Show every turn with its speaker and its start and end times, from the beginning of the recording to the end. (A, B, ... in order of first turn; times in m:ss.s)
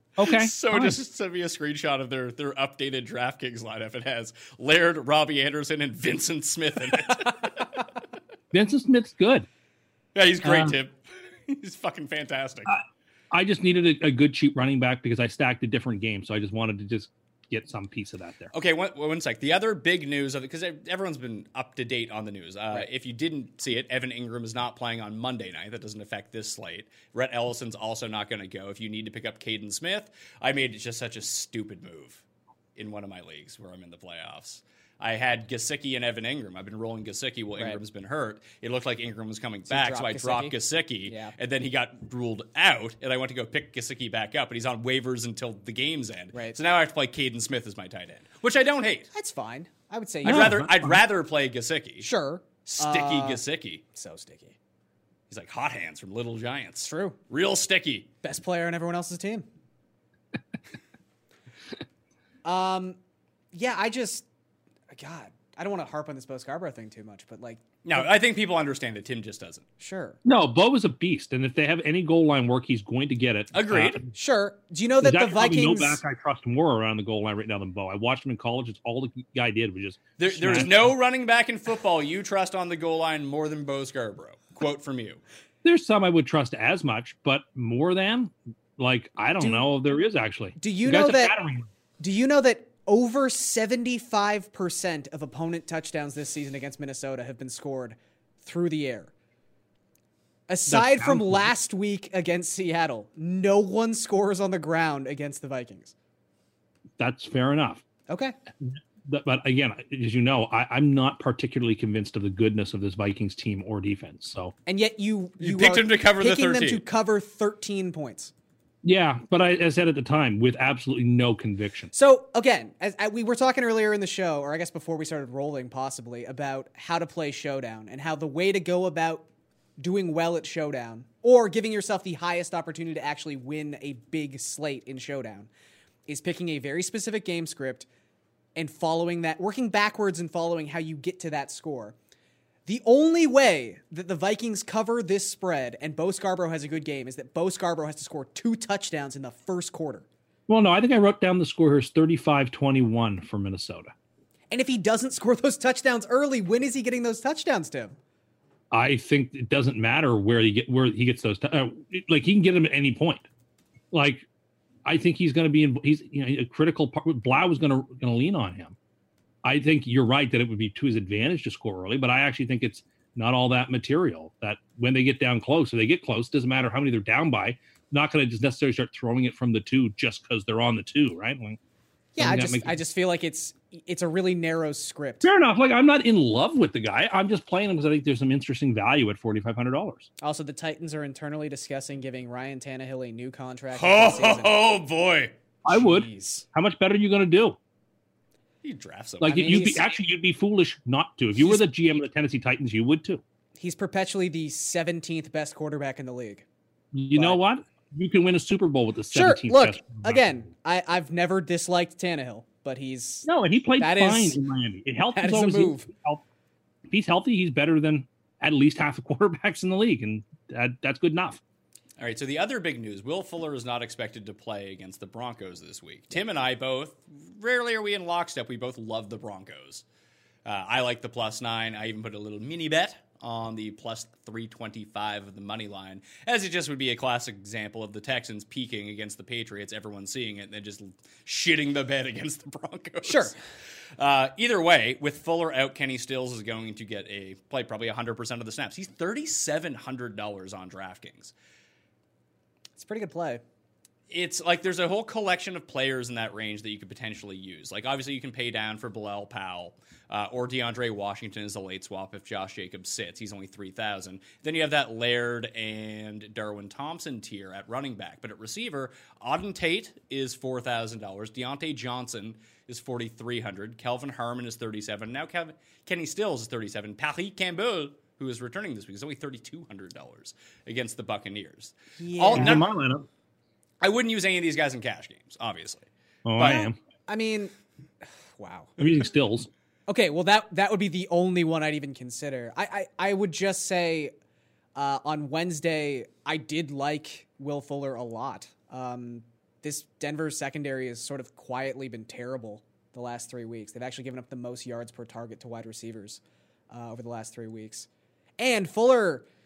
0:00.2-0:01.0 A
0:00.2-0:07.7 B
0:08.5-0:09.5 A
0:10.2-0:12.7 B
0:10.4-0:10.8 A
0:12.7-0:18.5 A
0:18.5-0:32.2 B
0:32.8-0:49.1 B
0:39.7-0:41.4 C
0:49.1-0:50.6 C
0:50.2-0:52.1 B
0:50.2-0:51.0 A
0:52.0-0:53.4 C
0:52.6-0:53.8 B
0:53.9-0:54.6 C
0:55.3-0:58.1 B
0:56.8-0:57.2 C
0:58.2-0:59.5 C
1:02.4-1:03.0 C
1:03.5-1:04.2 C
1:04.9-1:08.1 C
1:07.8-1:09.6 B
1:09.8-1:10.2 C
1:10.2-1:14.1 A
1:13.5-1:14.0 B
1:14.1-1:16.0 C
1:15.0-1:20.9 A
1:20.2-1:25.2 B
1:25.6-1:31.7 A
1:29.4-1:29.7 C
1:30.6-1:31.4 C
1:32.0-1:39.1 C
1:40.5-1:45.9 C
1:40.7-1:41.5 A
1:47.0-1:47.8 A
1:48.1-1:48.4 C
1:48.6-1:54.5 A
1:54.7-1:58.3 C
1:55.4-1:56.8 B
1:58.8-2:01.9 A
2:01.9-2:09.3 C
2:09.8-2:15.5 C
2:16.1-2:17.9 C
2:18.6-2:22.0 C
2:22.7-2:30.1 C
2:30.5-2:33.9 A
2:34.5-2:38.0 C
2:38.7-2:43.2 A
2:43.9-2:44.3 A
2:44.8-2:48.8 A
2:49.4-3:01.6 A
3:02.2-3:05.3 C
3:02.2-3:02.8 A
3:05.2-3:10.1 A
3:10.2-3:14.6 C
3:13.7-3:15.3 B
3:15.6-3:17.6 A
3:15.7-3:16.4 C
3:18.6-3:19.6 B
3:19.2-3:23.2 A
3:19.2-3:19.9 C
3:21.4-3:21.6 C
3:23.6-3:26.4 C
3:26.9-3:30.5 A
3:27.1-3:27.4 C
3:29.1-3:34.4 C
3:33.3-3:36.2 A
3:35.2-3:35.9 C
3:36.9-3:41.4 A
3:42.0-3:49.8 B
3:50.4-4:03.4 B
4:03.0-4:03.3 C
4:04.0-4:11.3 B
4:12.8-4:13.4 C
4:14.1-4:42.7 B
4:42.0-4:42.6 C
4:42.3-4:43.1 A
4:43.8-4:46.6 B
4:46.2-4:46.8 A
4:46.4-4:47.5 C
4:48.4-4:48.7 C
4:48.8-4:49.5 A
4:49.9-4:54.1 C
4:54.8-5:07.9 C
5:08.4-5:09.2 C